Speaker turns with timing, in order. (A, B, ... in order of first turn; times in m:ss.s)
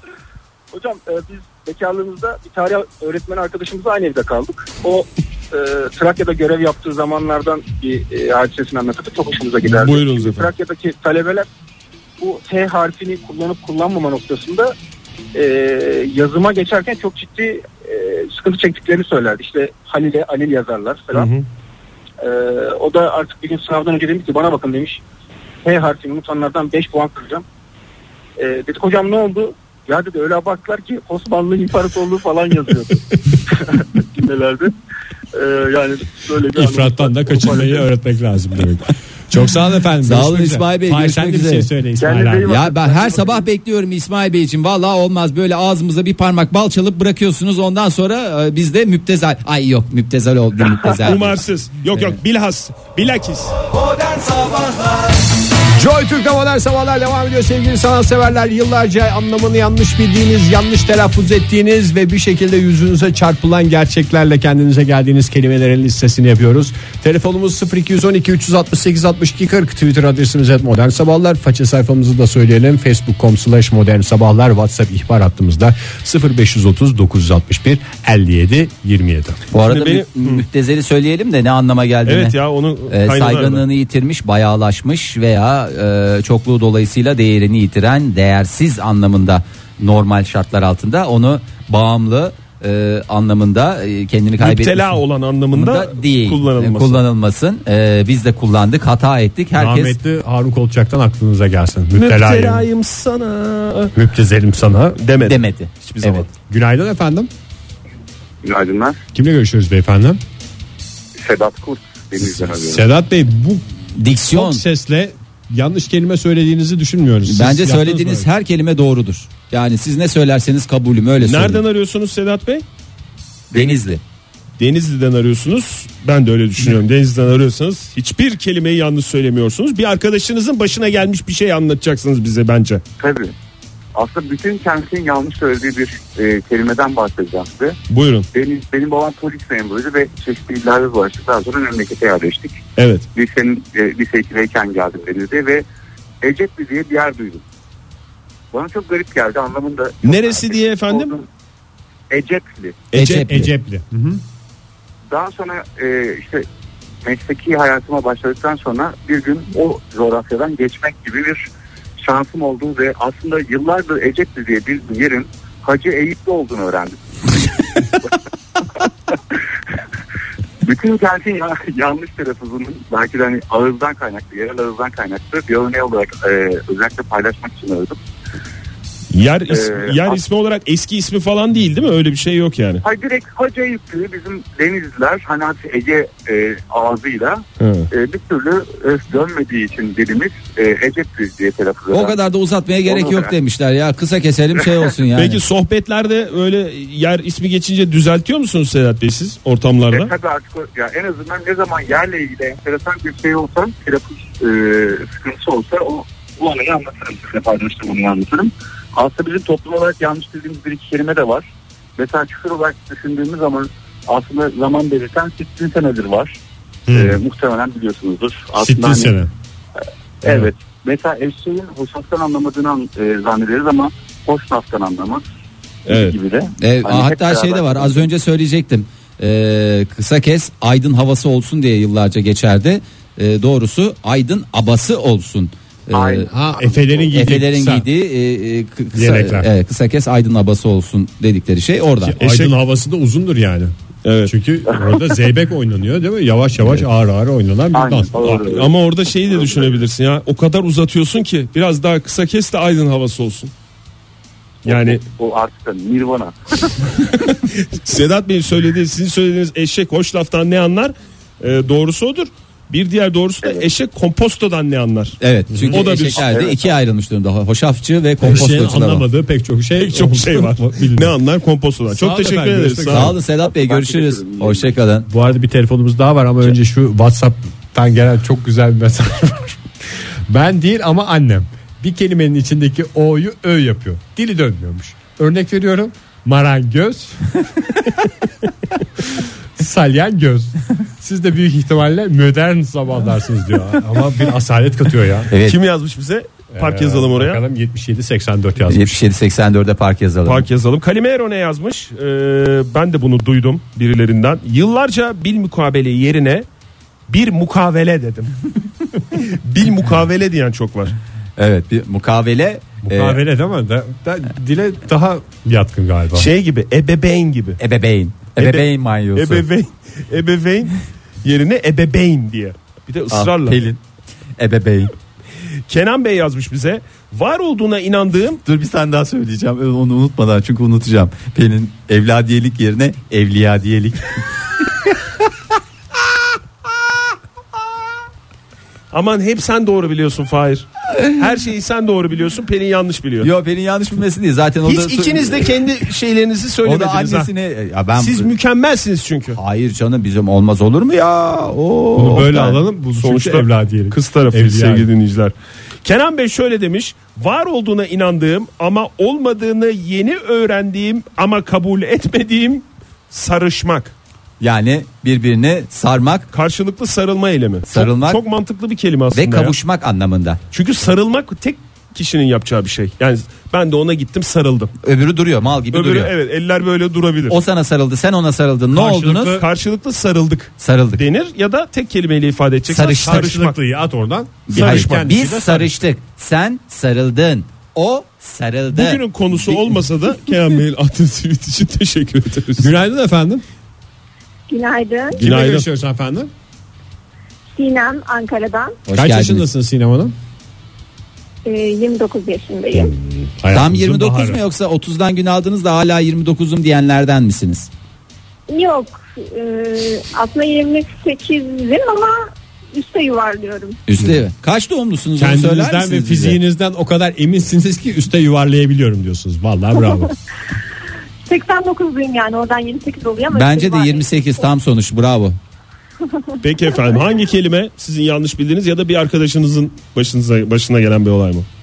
0:00.7-0:11.5 A
0:09.6-0:10.5 B
0:12.2-0:14.7 A
0:15.3-0:21.3 A
0:21.1-0:21.5 B
0:22.2-0:25.0 A
0:25.6-0:27.4 A
0:28.4-0:34.7 A
0:35.3-0:37.8 A
0:36.5-0:42.6 C
0:40.0-0:41.7 D
0:42.0-0:43.5 A
0:42.5-0:51.4 D
0:51.0-0:53.6 B
0:53.7-0:55.1 D
0:55.8-1:19.4 C
1:19.5-1:22.4 D
1:19.7-1:20.4 B
1:22.1-1:23.6 B
1:22.9-1:35.0 D
1:34.4-1:37.0 B
1:35.5-1:40.0 D
1:39.6-1:42.7 C
1:41.9-1:43.9 B
1:44.0-1:45.0 C
1:45.0-1:46.3 B
1:45.2-1:46.3 D
1:46.5-1:47.3 C
1:48.4-1:49.0 E
1:49.1-1:50.2 C
1:51.2-1:52.8 E
1:52.2-1:53.6 C
1:54.0-1:54.6 D
1:54.2-1:58.3 C
1:57.3-2:01.6 D
2:01.2-2:02.6 B
2:03.5-2:04.0 D
2:04.6-2:12.8 B
2:13.0-2:13.4 E
2:14.0-2:17.8 E
2:17.9-2:18.3 B
2:18.3-2:22.6 E
2:22.8-2:23.1 B
2:23.2-2:25.6 E
2:26.2-2:27.4 E
2:28.5-2:31.3 E
2:30.0-2:31.1 B
2:32.1-2:32.8 E
2:32.9-2:33.4 B
2:32.9-2:33.5 D
2:33.3-2:34.2 C
2:35.1-2:36.5 E
2:37.0-2:41.4 E
2:42.0-2:47.0 E
2:47.9-2:48.2 E
2:50.6-2:58.0 E
2:59.1-3:02.8 B
2:59.5-3:00.2 E
3:02.8-3:12.2 E
3:07.6-3:07.9 B
3:11.9-3:15.4 D
3:12.8-3:13.3 E
3:15.2-3:20.1 B
3:19.9-3:36.4 E
3:36.9-3:37.2 C
3:36.9-3:39.2 E
3:38.6-3:39.3 C
3:40.2-3:45.2 E
3:45.9-3:46.2 B
3:45.9-3:48.0 E
3:46.6-3:56.3 D
3:55.9-3:57.0 E
3:56.3-3:57.9 C
3:57.1-4:02.2 D
3:59.0-3:59.5 C
4:02.0-4:03.7 C
4:02.2-4:02.5 B
4:04.0-4:04.3 B
4:04.3-4:08.4 C
4:07.7-4:08.7 E
4:08.2-4:13.5 B
4:09.3-4:09.8 E
4:14.6-4:15.0 B
4:14.6-4:16.9 E
4:17.3-4:25.2 B
4:25.2-4:29.0 D
4:25.5-4:25.9 C
4:25.7-4:26.4 B
4:26.2-4:26.6 E
4:28.2-4:31.1 C
4:29.8-4:33.2 B
4:31.9-4:33.2 C
4:32.9-4:35.1 D
4:33.4-4:34.8 E
4:35.1-4:39.6 C
4:40.3-4:47.4 C
4:49.0-4:55.3 C
4:55.3-4:55.6 D
4:55.4-4:57.4 B
4:56.5-4:59.0 C
4:58.7-5:00.4 D
5:00.2-5:06.5 B
5:07.1-5:08.3 B
5:09.1-5:11.0 B
5:11.4-5:13.2 D
5:12.8-5:16.3 C
5:16.2-5:17.6 B
5:17.6-5:19.4 D
5:18.4-5:23.6 B
5:23.1-5:23.8 D
5:24.4-5:24.9 D
5:25.7-5:28.4 B
5:28.4-5:34.1 D
5:38.9-5:43.3 B
5:43.2-5:45.6 D
5:44.7-5:47.3 B
5:46.6-5:48.3 D
5:48.0-5:49.4 B
5:49.4-5:52.6 D
5:52.0-5:54.9 C
5:53.0-5:55.3 B
5:55.8-6:03.9 B
6:04.4-6:06.3 D
6:06.3-6:09.6 B
6:07.7-6:08.2 D
6:09.1-6:10.4 D
6:10.5-6:14.7 B
6:14.8-6:16.1 D
6:15.7-6:17.4 B
6:17.3-6:19.4 D
6:18.7-6:19.5 C
6:19.4-6:23.6 B
6:20.6-6:21.0 D
6:22.7-6:23.3 D
6:22.8-6:25.8 C
6:24.5-6:29.0 D
6:24.5-6:25.1 B
6:28.7-6:32.7 B
6:32.6-6:33.4 C
6:34.5-6:35.2 F
6:35.1-6:36.3 C
6:35.2-6:35.7 B
6:37.6-6:38.8 F
6:38.9-6:39.5 D
6:38.9-6:40.1 C
6:41.5-6:42.9 F
6:42.7-6:44.4 C
6:43.5-6:47.7 D
6:48.5-6:52.2 F
6:52.7-6:53.8 F
6:53.9-6:56.4 D
6:55.2-7:00.1 C
7:01.3-7:04.1 F
7:03.3-7:05.4 D
7:06.4-7:11.5 B